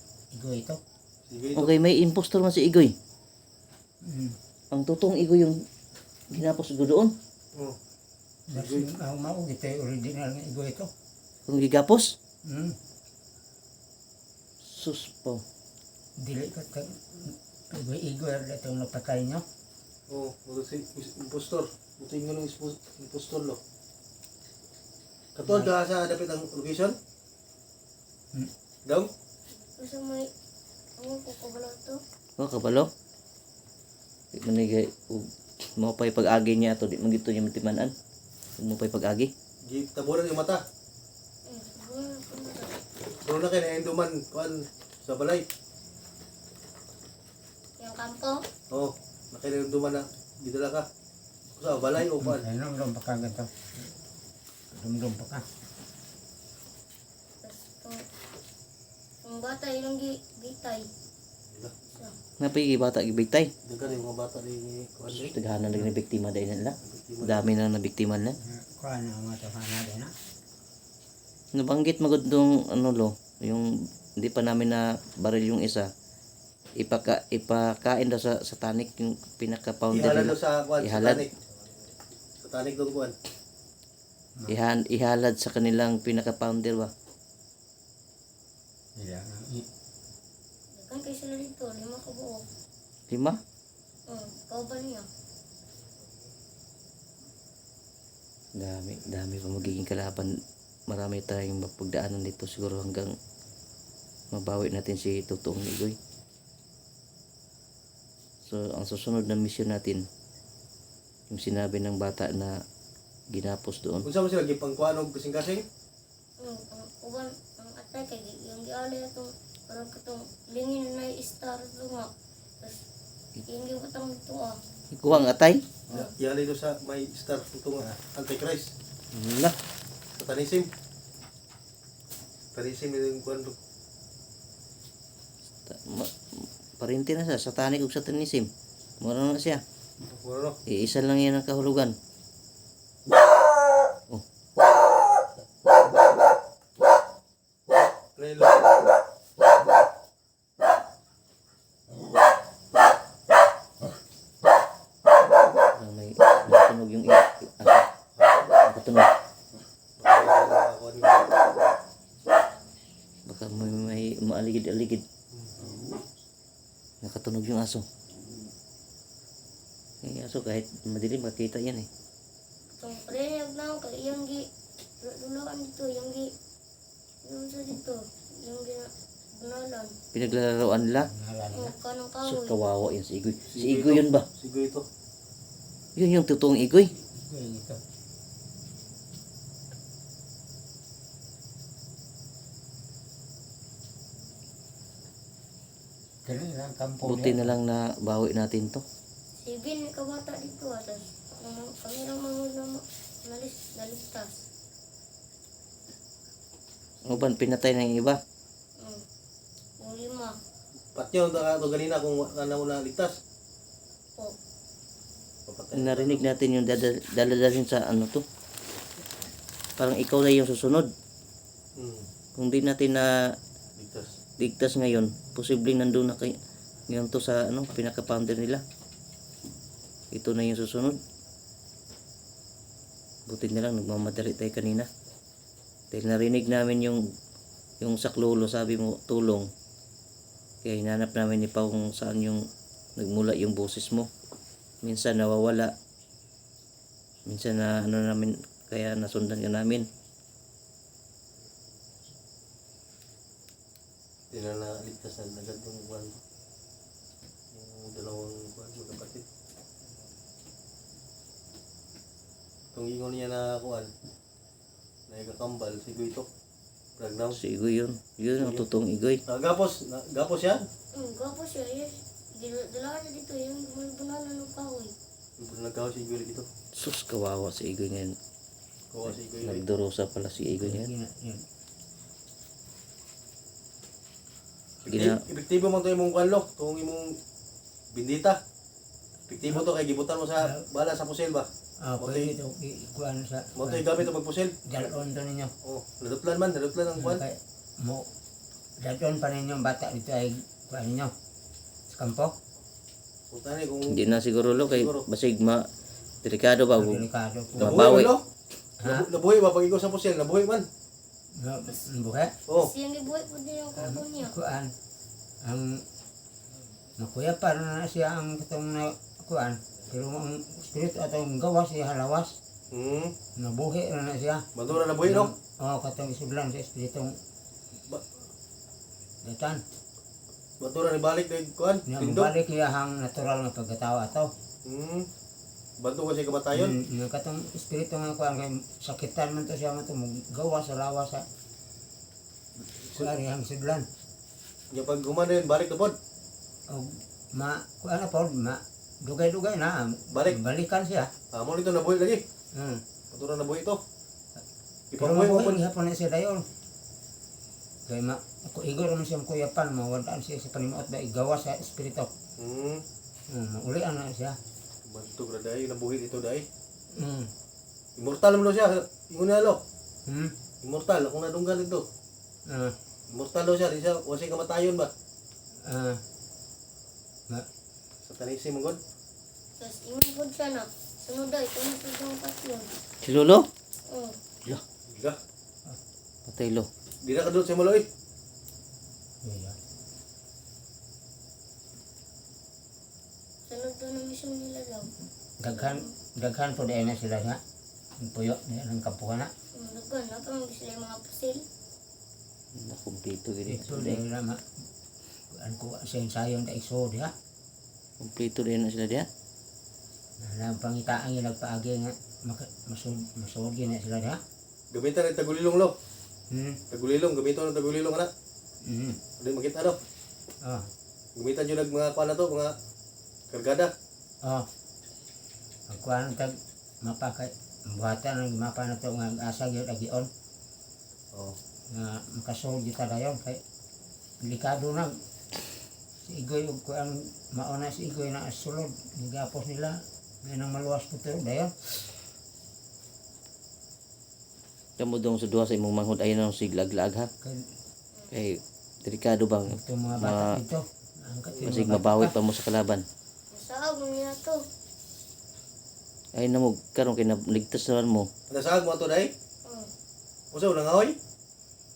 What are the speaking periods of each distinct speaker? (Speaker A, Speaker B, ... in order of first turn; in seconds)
Speaker A: 0.3-0.8, 4.0-4.4, 8.5-10.9, 12.4-12.8, 16.2-19.4, 52.1-53.5, 54.7-55.4, 68.4-70.1, 89.0-89.7, 181.0-181.7, 187.0-187.8, 196.2-197.6, 280.4-281.4, 291.8-294.1, 294.6-295.5, 297.0-298.1, 298.8-301.1, 301.9-302.3, 306.7-307.9, 308.8-309.1, 311.4-312.4, 313.8-314.7, 315.4-315.9, 317.0-322.4, 323.4-327.2, 329.2-329.6, 331.9-334.3, 336.5-341.2, 342.9-343.9, 346.7-351.1, 352.6-352.8, 355.0-356.4, 357.9-362.1, 363.3-364.4, 366.9-367.3, 370.1-370.3, 372.5-372.8, 375.6-376.0, 389.2-389.6, 395.4-397.4, 398.0-399.3, 403.5-404.6, 405.3-407.1, 410.2-414.2, 416.3-416.6, 418.6-419.0, 420.4-420.7, 425.7-430.1, 431.7-433.4, 434.2-434.9, 436.1-442.0, 447.2-447.5, 449.5-452.2
Speaker B: 1.3-1.7, 8.5-8.9, 20.1-23.6, 25.4-26.9, 39.7-40.6, 43.2-45.5, 48.7-50.9, 51.6-52.5, 63.6-65.3, 66.8-67.5, 79.9-81.3, 82.4-83.2, 114.0-115.7, 125.9-128.7, 130.2-130.7, 132.5-133.6, 140.1-140.6, 148.2-148.7, 160.0-161.3, 183.5-184.8, 210.9-213.2, 215.5-216.3, 221.8-222.1, 223.8-224.2, 254.3-256.2, 257.5-259.2, 262.7-263.9, 265.1-266.3, 267.0-267.4, 268.4-268.7, 269.3-270.7, 275.4-276.5, 278.9-279.6, 284.9-287.2, 287.9-288.4, 289.3-291.5, 292.0-292.3, 293.6-294.6, 295.6-297.2, 303.3-305.1, 307.6-308.2, 308.8-310.7, 322.7-323.1, 324.6-325.3, 327.9-328.2, 330.6-332.3, 334.6-335.1, 335.8-336.8, 342.8-343.1, 344.7-346.0, 350.1-350.4, 351.3-352.2, 353.1-353.8, 354.9-355.6, 362.4-362.8, 364.9-366.5, 368.0-369.6, 370.6-371.9, 373.1-374.9, 378.1-378.8, 384.9-385.2, 387.0-387.9, 414.7-415.8, 416.7-418.1, 419.2-419.8, 421.2-422.6, 423.3-423.7, 458.3-459.1, 460.3-461.0
Speaker C: 1.5-3.0, 4.7-5.6, 6.3-7.1, 11.5-12.2, 14.6-15.4, 32.4-32.9, 34.3-37.9, 38.6-39.3, 62.4-63.5, 65.1-68.4, 71.5-75.9, 76.8-81.3, 84.5-86.9, 93.1-93.4, 98.6-100.3, 100.9-103.1, 104.3-106.0, 108.5-110.1, 111.3-112.5, 113.3-114.1, 124.9-125.7, 129.1-129.6, 135.7-138.5, 139.0-139.6, 140.7-141.9, 155.7-157.9, 158.5-159.1, 163.3-165.0, 167.0-167.9, 170.0-171.9, 180.1-181.1, 182.2-184.3, 186.0-186.9, 197.0-198.8, 207.0-208.2, 215.7-218.2, 219.8-220.9, 222.4-223.4, 224.4-226.4, 226.9-228.6, 230.1-231.0, 233.3-234.9, 235.9-237.0, 237.8-239.5, 240.6-244.1, 244.8-245.7, 247.3-249.9, 267.3-269.2, 276.7-278.1, 279.3-280.9, 284.9-285.2, 303.9-305.7, 306.2-308.1, 383.0-383.5, 386.3-386.7, 402.5-404.0, 408.0-409.1, 444.8-447.1, 448.1-450.4, 451.4-452.9, 456.1-458.1
Speaker D: 29.8-30.3, 31.0-32.0, 41.5-42.8, 47.8-48.4, 57.4-58.0, 59.2-60.9, 90.8-92.5, 94.1-95.1, 116.4-122.8, 123.4-124.6, 172.8-174.4, 175.0-176.3, 177.2-180.0, 181.5-182.6, 199.4-204.4, 209.8-210.3, 270.9-274.9, 312.6-314.4, 379.6-382.8, 383.9-384.2, 393.5-394.9, 395.5-395.9, 399.5-401.4, 453.3-454.4, 459.4-459.7